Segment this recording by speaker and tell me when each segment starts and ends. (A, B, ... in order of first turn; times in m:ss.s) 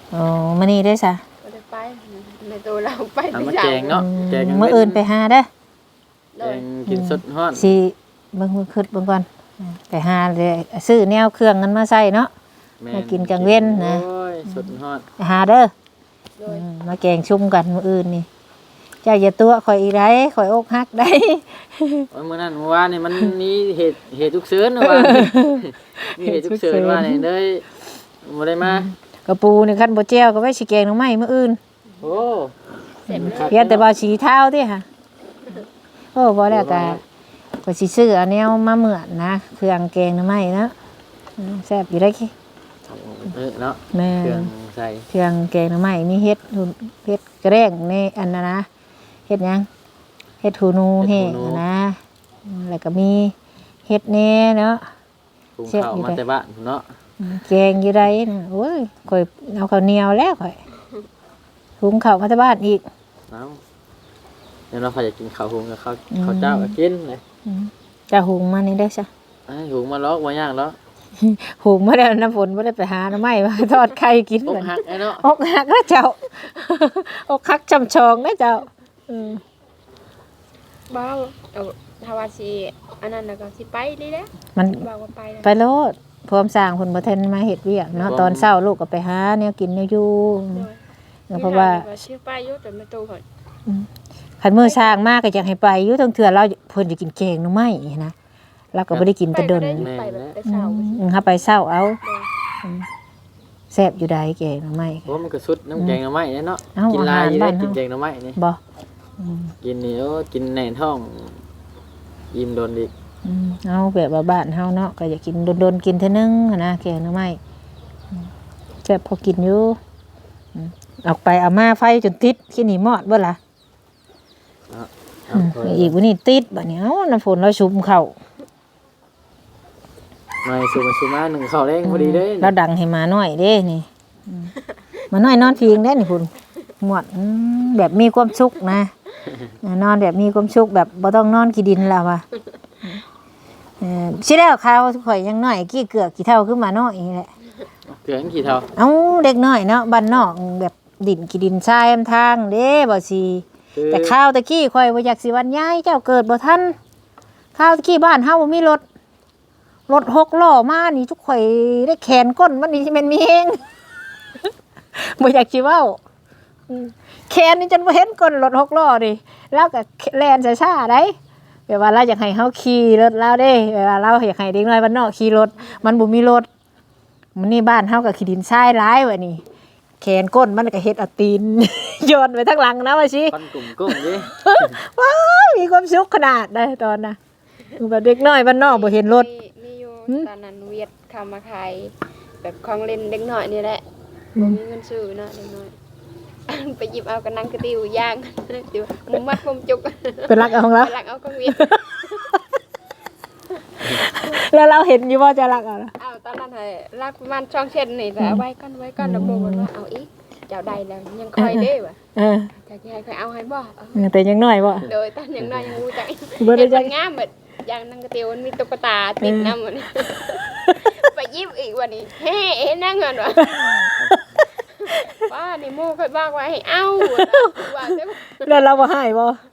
0:00.1-0:01.2 A
0:01.4-0:04.0 B
0:03.3-0:05.0 C
0:03.9-0:05.5 A
0:06.3-0:06.6 B
0:06.4-0:07.8 C
0:06.9-0:12.3 A
0:12.8-0:15.0 C
0:12.9-0:14.0 A
0:15.2-0:15.7 A
0:16.4-0:16.6 B
0:16.5-0:18.3 A
0:19.0-0:22.1 A
0:22.1-0:28.9 C
0:24.8-0:27.2 A
0:28.6-0:31.6 A
0:32.0-0:32.5 C
0:33.1-0:33.9 C
0:33.1-0:34.8 A
0:33.1-0:33.5 B
0:36.1-0:37.0 A
0:36.5-0:37.0 C
0:37.6-0:40.7 A
0:41.4-0:42.3 A
0:42.9-0:45.0 C
0:43.9-0:44.5 A
0:45.1-0:48.7 A
0:49.3-0:49.7 A
0:50.4-0:53.3 A
0:51.0-0:51.6 C
0:53.9-0:54.8 A
0:55.6-0:56.8 C
0:55.7-0:56.2 A
0:57.2-1:00.6 A
1:01.8-1:02.8 A
1:03.3-1:03.6 C
1:04.7-1:07.2 C
1:06.1-1:06.7 A
1:07.4-1:09.1 A
1:09.5-1:10.8 C
1:11.2-1:19.4 A
1:14.4-1:15.2 C
1:20.9-1:25.5 B
1:24.6-1:24.8 A
1:25.4-1:30.7 A
1:27.9-1:28.5 C
1:31.3-1:31.9 A
1:31.3-1:33.2 B
1:34.4-1:38.1 A
1:34.6-1:35.0 B
1:38.7-1:39.9 A
1:39.3-1:41.2 B
1:39.7-1:40.3 C
1:40.4-1:42.0 A
1:42.0-1:42.3 B
1:43.7-1:45.1 A
1:45.1-1:48.4 C
1:46.7-1:47.8 A
1:49.2-1:49.5 A
1:49.6-1:51.4 C
1:52.3-1:52.9 C
1:53.2-1:57.4 A
1:58.8-1:59.8 A
2:00.5-2:03.4 A
2:04.7-2:05.9 C
2:05.3-2:08.1 A
2:10.4-2:12.5 C
2:11.8-2:14.5 A
2:15.1-2:18.9 A
2:19.6-2:22.2 A
2:23.8-2:27.3 A
2:27.9-2:28.7 C
2:28.7-2:36.8 A
2:33.7-2:34.2 C
2:37.5-2:38.8 A
2:39.9-2:43.6 A
2:44.9-2:46.0 A
2:46.7-2:51.2 A
2:51.7-2:56.5 A
2:57.4-2:59.4 A
3:00.0-3:07.2 A
3:03.3-3:04.8 C
3:07.8-3:09.3 A
3:08.6-3:13.8 B
3:14.4-3:15.7 B
3:16.5-3:22.2 B
3:20.3-3:20.9 A
3:21.5-3:21.8 A
3:23.8-3:25.9 A
3:26.0-3:32.0 B
3:29.0-3:29.7 A
3:31.4-3:32.5 A
3:32.6-3:34.0 B
3:33.9-3:34.9 A
3:34.8-3:43.8 B
3:35.4-3:35.8 C
3:36.4-3:36.9 A
3:39.2-3:39.5 A
3:40.5-3:41.0 A
3:43.4-3:44.2 A
3:44.7-3:48.6 B
3:47.0-3:49.4 A